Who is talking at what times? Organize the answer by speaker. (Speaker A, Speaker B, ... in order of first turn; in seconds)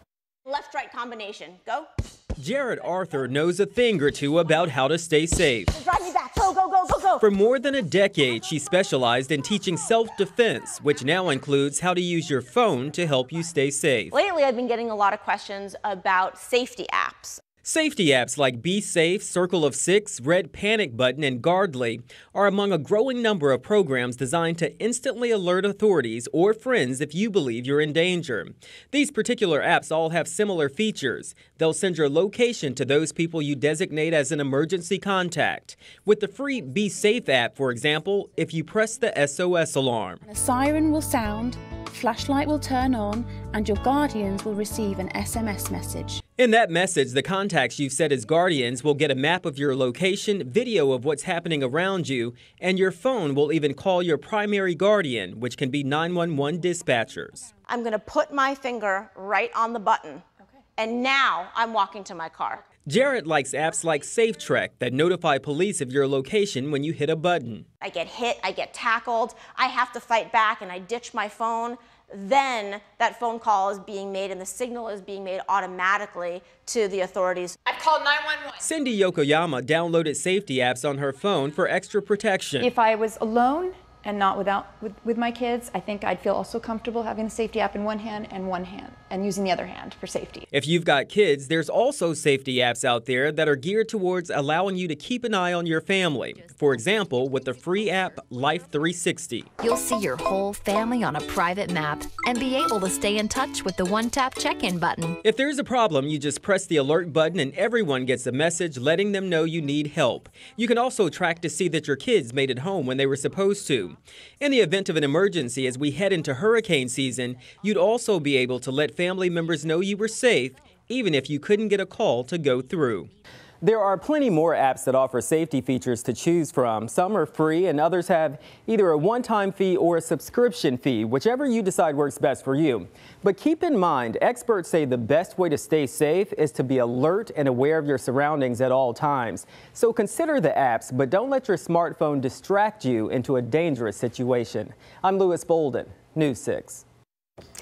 Speaker A: 0.5-1.9, 5.7-7.2, 14.1-17.4, 57.7-60.2, 60.8-62.6, 67.8-77.6
Speaker B: 2.4-5.7, 7.2-14.1, 17.6-40.2, 46.4-57.5, 62.9-67.7, 78.6-82.7, 90.5-99.5, 105.2-123.1, 123.6-146.8
Speaker C: 40.3-46.2, 77.7-78.5
Speaker D: 82.6-90.5
Speaker E: 99.6-105.2